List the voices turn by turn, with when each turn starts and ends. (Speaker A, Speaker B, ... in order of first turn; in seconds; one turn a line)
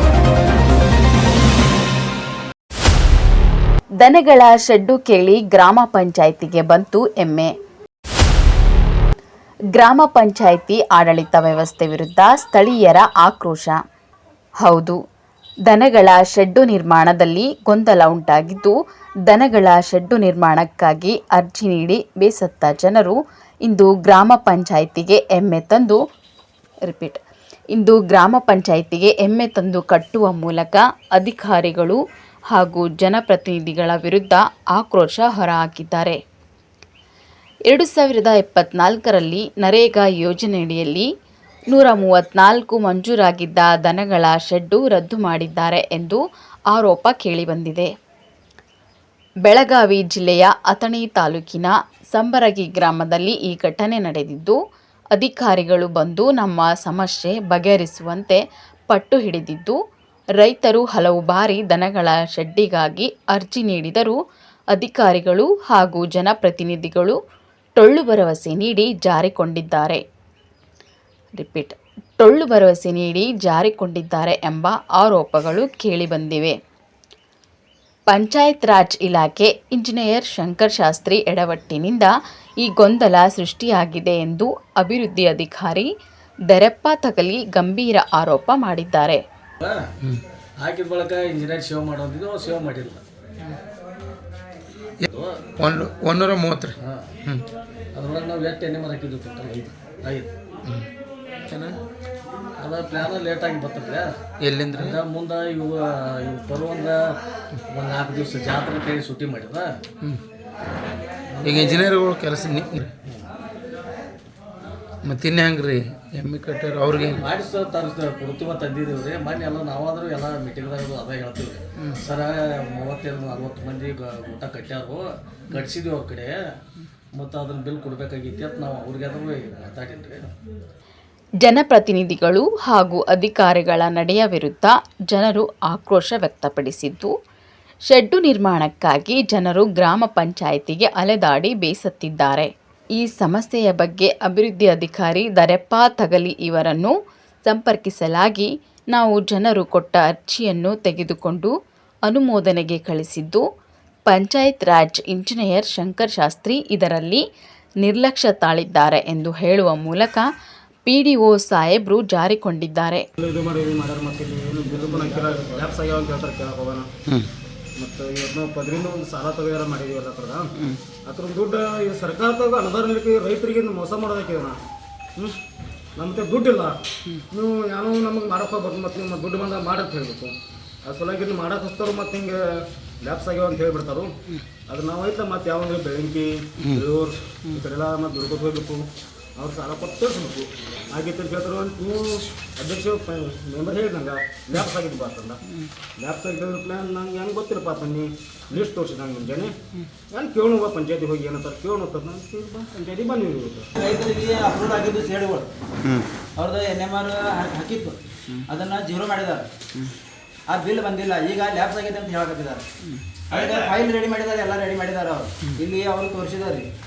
Speaker A: 4.0-7.5
Speaker A: 9.8-13.8
Speaker A: 14.6-15.0
Speaker A: 15.7-18.7
Speaker A: 19.3-26.0
Speaker A: 26.9-27.2
Speaker A: 27.8-32.0
Speaker A: 32.5-36.2
Speaker A: 37.7-41.0
Speaker A: 41.7-46.2
Speaker A: 46.7-47.9
Speaker A: 49.5-54.6
Speaker A: 55.1-58.4
Speaker A: 58.9-59.8
Speaker A: 60.4-64.2
Speaker A: 64.7-67.2
Speaker A: 67.8-70.0
Speaker A: 71.4-76.5
Speaker A: 78.1-85.9
Speaker A: 86.5-89.2
Speaker B: 89.6-89.9
Speaker B: 90.6-93.0
Speaker B: 95.1-95.4
Speaker C: 95.6-97.5
Speaker B: 96.8-97.1
Speaker B: 97.9-100.3
Speaker C: 101.5-101.8
Speaker B: 102.6-104.1
Speaker C: 104.4-105.0
Speaker B: 104.7-107.0
Speaker B: 107.7-109.7
Speaker B: 111.3-111.9
Speaker C: 111.4-112.9
Speaker C: 115.0-117.2
Speaker B: 117.1-126.3
Speaker B: 127.2-130.2
Speaker A: 131.4-137.1
Speaker A: 137.9-146.9
Speaker A: 147.5-151.5
Speaker A: 152.1-153.4
Speaker A: 154.1-157.2
Speaker A: 157.8-160.3
Speaker A: 160.9-163.0
Speaker D: 163.2-166.9
Speaker D: 167.8-174.6
Speaker D: 175.9-184.1
Speaker D: 184.7-195.4
Speaker D: 196.0-199.6
Speaker D: 200.1-203.7
Speaker E: 203.8-205.5
Speaker E: 206.3-209.5
Speaker E: 210.5-212.7
Speaker E: 213.3-216.7